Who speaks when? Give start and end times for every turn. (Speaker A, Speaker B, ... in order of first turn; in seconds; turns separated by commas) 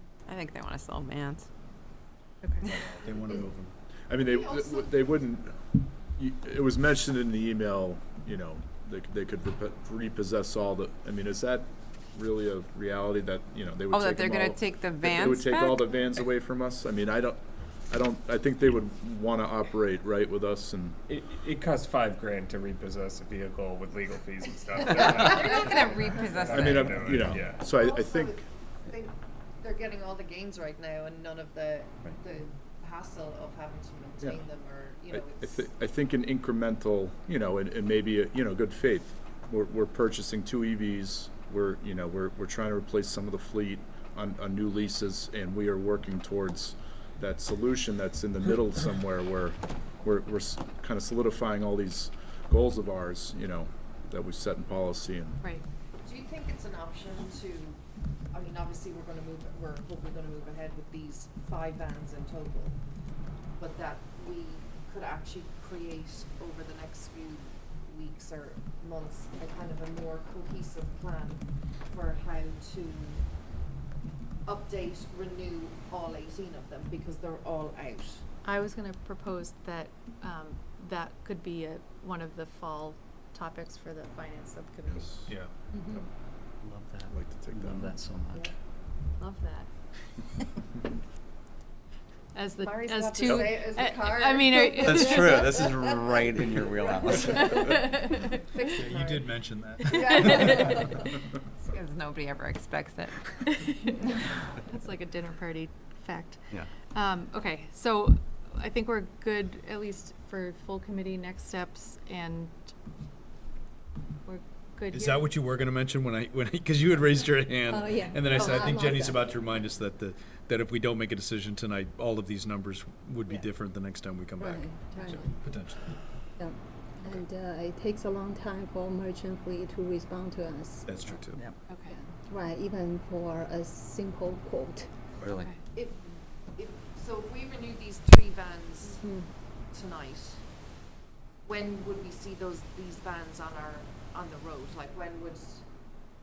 Speaker A: 0.3-1.5, Speaker B: 2.4-2.7, Speaker C: 2.6-3.7, Speaker D: 4.1-21.0, Speaker E: 4.2-5.0, Speaker A: 13.9-16.2, Speaker F: 21.1-27.6, Speaker A: 24.9-27.1, Speaker D: 26.5-28.4, Speaker E: 27.6-35.7, Speaker D: 34.2-34.5, Speaker D: 35.1-55.4, Speaker E: 56.0-62.8, Speaker E: 63.6-73.3, Speaker E: 74.4-78.2, Speaker B: 78.4-85.3, Speaker D: 84.8-85.3, Speaker C: 85.3-85.5, Speaker G: 86.6-88.5, Speaker D: 87.1-87.9, Speaker B: 89.2-89.7, Speaker B: 92.3-95.5, Speaker E: 92.6-95.7, Speaker G: 94.8-98.0, Speaker E: 96.6-97.8, Speaker B: 97.5-98.2, Speaker E: 98.3-99.3, Speaker C: 98.6-100.8, Speaker E: 99.9-100.9, Speaker A: 101.6-103.3, Speaker B: 103.5-112.7, Speaker B: 114.2-115.2, Speaker C: 114.9-126.0, Speaker H: 117.7-119.3, Speaker H: 124.4-125.3, Speaker B: 124.9-125.2, Speaker H: 126.4-130.9, Speaker C: 130.8-131.4, Speaker B: 131.7-131.9, Speaker H: 131.9-134.9, Speaker G: 135.2-135.5, Speaker E: 135.7-136.0, Speaker E: 136.5-139.1, Speaker H: 139.0-139.3, Speaker E: 139.7-140.4, Speaker E: 141.4-145.6